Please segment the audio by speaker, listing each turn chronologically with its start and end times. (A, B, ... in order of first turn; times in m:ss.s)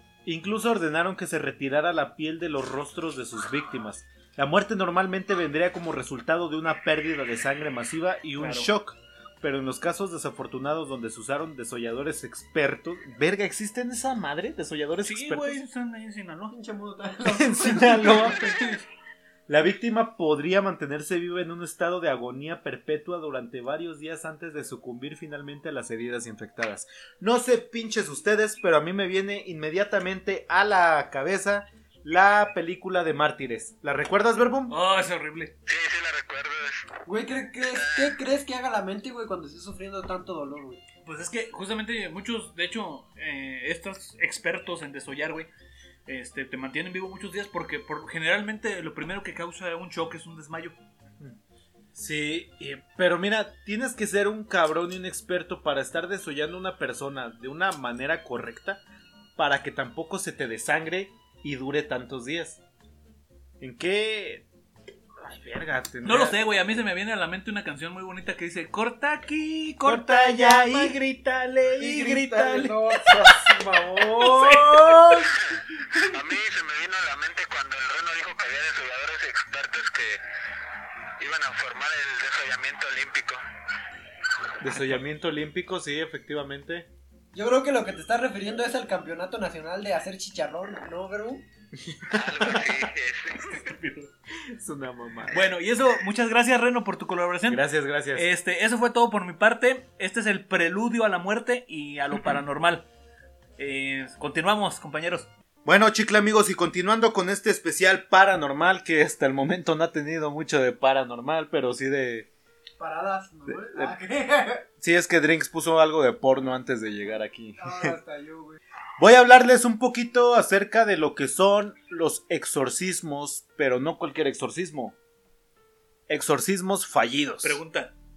0:00.2-0:15.6 A
0:08.4-0:08.7 B
0:15.0-0:16.5 B
0:16.5-0:18.8 C
0:17.2-0:18.7 A
0:19.5-0:34.8 A
0:34.7-0:35.5 B
0:35.6-0:36.8 D
0:37.0-0:40.8 C
0:37.6-0:38.1 D
0:41.0-0:45.5 B
0:46.0-0:50.8 B
0:51.9-0:58.8 A
0:59.4-1:02.6 A
1:03.6-1:04.4 A
1:05.2-1:06.4 A
1:06.0-1:11.0 B
1:09.8-1:15.3 A
1:11.8-1:13.2 B
1:12.4-1:12.7 C
1:14.0-1:15.3 B
1:16.1-1:20.2 D
1:21.2-1:23.4 D
1:24.6-1:26.9 A
1:27.3-1:31.4 C
1:31.8-1:32.7 A
1:32.1-1:33.5 D
1:33.4-1:34.1 B
1:34.5-1:35.5 A
1:35.3-1:42.9 B
1:37.5-1:38.2 A
1:43.6-1:45.3 B
1:45.6-1:52.3 A
1:52.8-1:54.6 C
1:53.5-1:53.9 A
1:54.8-1:57.9 A
1:57.6-1:58.6 C
1:59.0-2:04.9 A
2:06.1-2:07.6 A
2:07.4-2:07.9 B